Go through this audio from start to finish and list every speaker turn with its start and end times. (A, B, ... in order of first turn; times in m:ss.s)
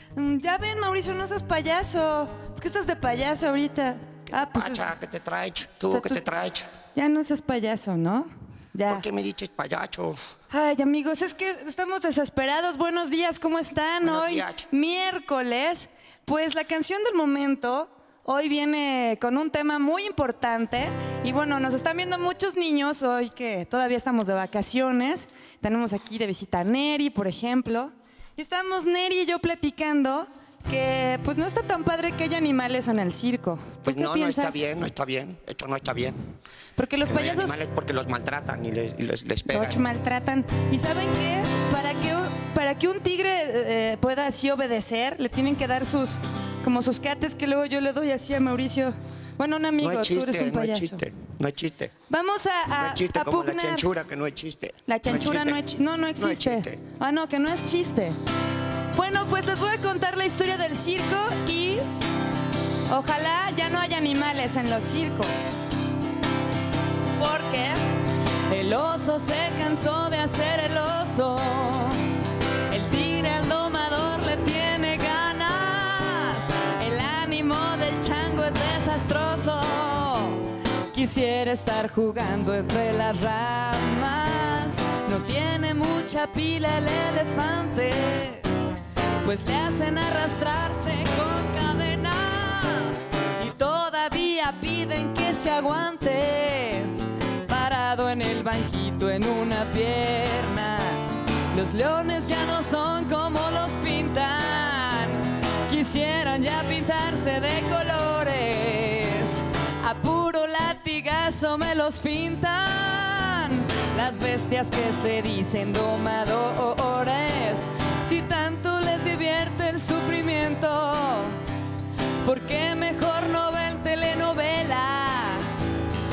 0:00.1-0:04.9 A
0:04.3-0:06.7 B
0:05.8-0:06.2 A
0:06.9-0:09.0 A
0:08.9-0:10.2 B
0:10.5-0:34.6 A
0:14.0-0:14.7 B
0:33.8-0:36.2 B
0:36.8-0:37.6 A
0:37.0-0:39.8 B
0:39.5-0:51.0 A
0:49.8-0:51.9 B
0:52.1-0:53.8 A
0:52.8-0:55.6 B
0:54.8-0:58.2 A
0:56.2-0:56.8 B
0:58.9-1:01.8 A
1:02.9-1:05.6 A
1:07.2-1:07.8 A
1:08.5-1:12.0 A
1:12.7-1:28.5 A
1:29.2-2:01.4 A
2:02.2-2:05.7 A